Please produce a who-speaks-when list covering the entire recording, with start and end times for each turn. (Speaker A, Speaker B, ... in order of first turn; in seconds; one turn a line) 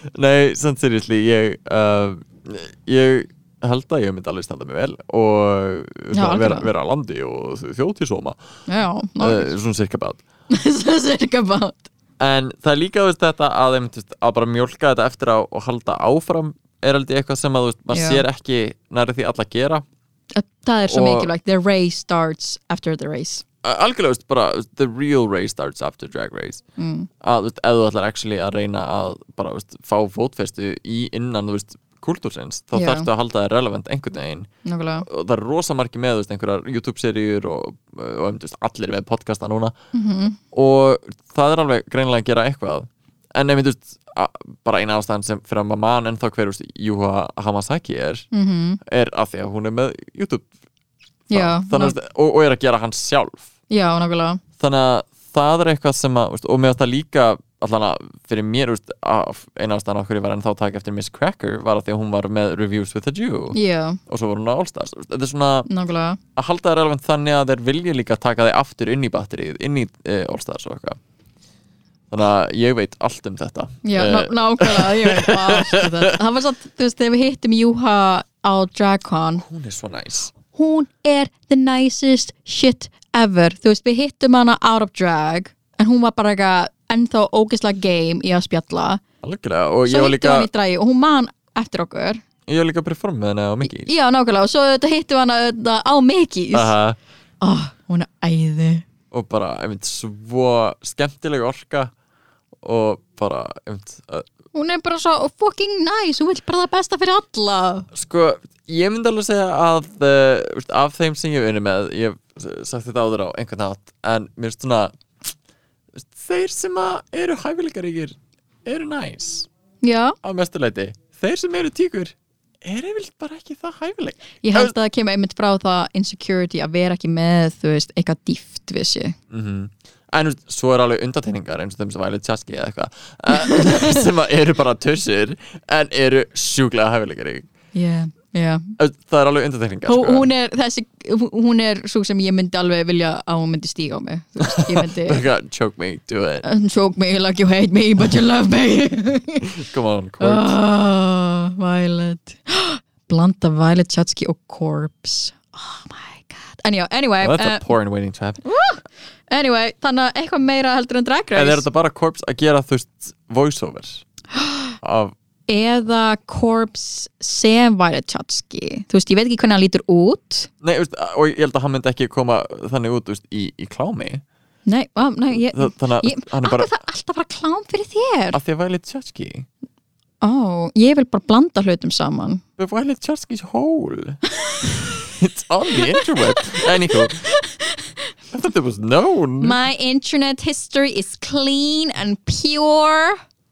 Speaker A: 0.1-8.4
Speaker B: 6.1-6.7
Speaker B: 8.7-9.5
Speaker A: 9.2-10.2
Speaker B: 10.5-11.9
Speaker A: 12.2-19.8
Speaker B: 17.9-18.2
Speaker B: 20.4-23.4
Speaker A: 20.9-21.3
Speaker A: 23.6-26.6
Speaker B: 26.8-27.1
Speaker A: 27.2-34.5
Speaker B: 32.7-33.1
Speaker B: 34.6-35.1
Speaker A: 35.0-39.8
Speaker B: 39.9-40.4
Speaker A: 40.5-48.3
Speaker B: 48.3-48.8
Speaker A: 48.8-50.5
Speaker B: 51.3-52.0
Speaker A: 51.3-53.5
Speaker B: 53.7-54.4
Speaker A: 54.6-65.7
Speaker B: 63.5-64.0
Speaker B: 65.7-66.2
Speaker A: 66.4-71.0
Speaker A: 72.1-76.1
Speaker B: 73.8-79.5
Speaker A: 79.4-80.3
Speaker B: 80.5-89.0
Speaker A: 89.2-90.5
Speaker B: 89.9-92.2
Speaker A: 92.5-93.9
Speaker B: 93.7-96.7
Speaker A: 96.5-97.0
Speaker B: 97.4-98.8
Speaker A: 99.1-101.9
Speaker A: 102.6-104.3
Speaker B: 104.5-107.9
Speaker A: 107.9-114.9
Speaker A: 115.9-119.5
Speaker B: 119.8-120.2
Speaker A: 120.2-124.7
Speaker B: 124.4-129.2
Speaker A: 129.3-137.5
Speaker B: 133.3-134.1
Speaker B: 137.7-138.7
Speaker A: 138.8-140.3
Speaker B: 139.9-145.2
Speaker A: 144.4-146.4
Speaker B: 146.4-149.6
Speaker A: 149.5-150.6
Speaker B: 150.2-157.7
Speaker A: 157.2-158.4
Speaker B: 158.4-161.7
Speaker A: 161.3-164.1
Speaker B: 164.3-164.8
Speaker A: 164.8-165.1
Speaker B: 165.5-170.5
Speaker A: 170.6-174.2
Speaker B: 174.7-178.4
Speaker A: 175.3-176.7
Speaker A: 178.3-179.5
Speaker B: 180.2-182.4
Speaker A: 182.6-187.2
Speaker B: 184.4-184.9
Speaker B: 185.7-188.0
Speaker A: 188.3-189.6
Speaker B: 189.4-193.2